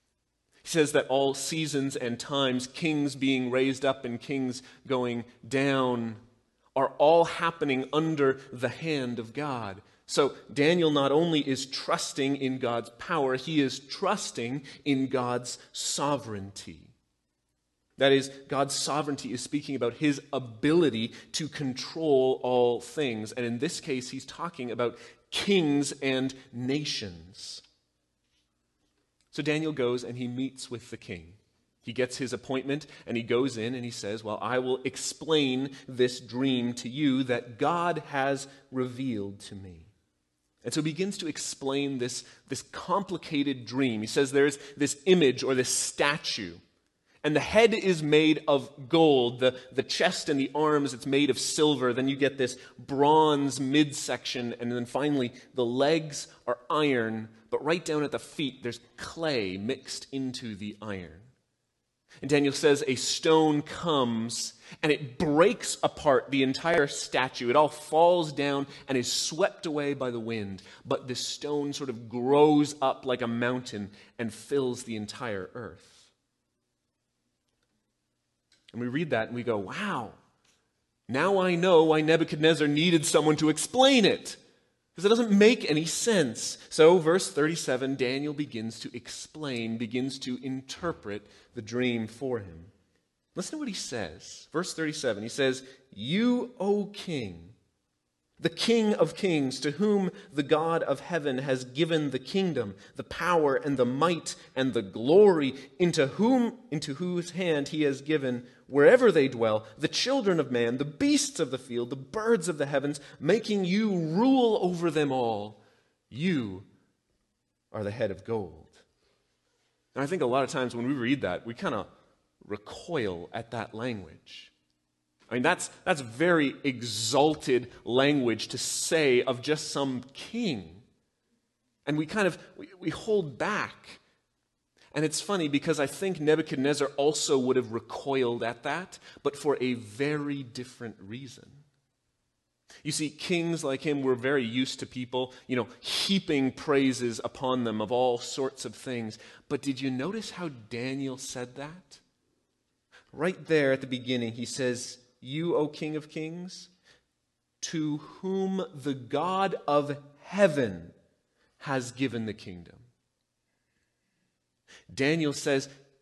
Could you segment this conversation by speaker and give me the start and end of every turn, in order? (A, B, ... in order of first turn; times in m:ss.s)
0:00.6-0:06.2 A
0:06.7-0:16.9 A
0:18.0-0:27.6 A
0:29.3-0:39.9 A
0:40.6-0:46.6 A
0:47.2-1:01.3 A
1:02.2-1:16.1 A
1:18.7-1:20.2 A
1:21.1-1:24.4 A
1:24.9-1:32.7 A
1:33.3-1:37.6 A
1:38.4-1:56.7 A
1:57.7-1:58.8 A
1:59.9-2:01.9 A
2:02.4-2:04.5 A
2:05.3-2:10.8 A
2:11.8-2:14.0 A
2:14.9-2:21.6 A
2:22.8-2:32.0 A
2:33.1-2:36.7 A
2:37.6-2:40.9 A
2:41.6-2:42.9 A
2:44.9-2:45.7 A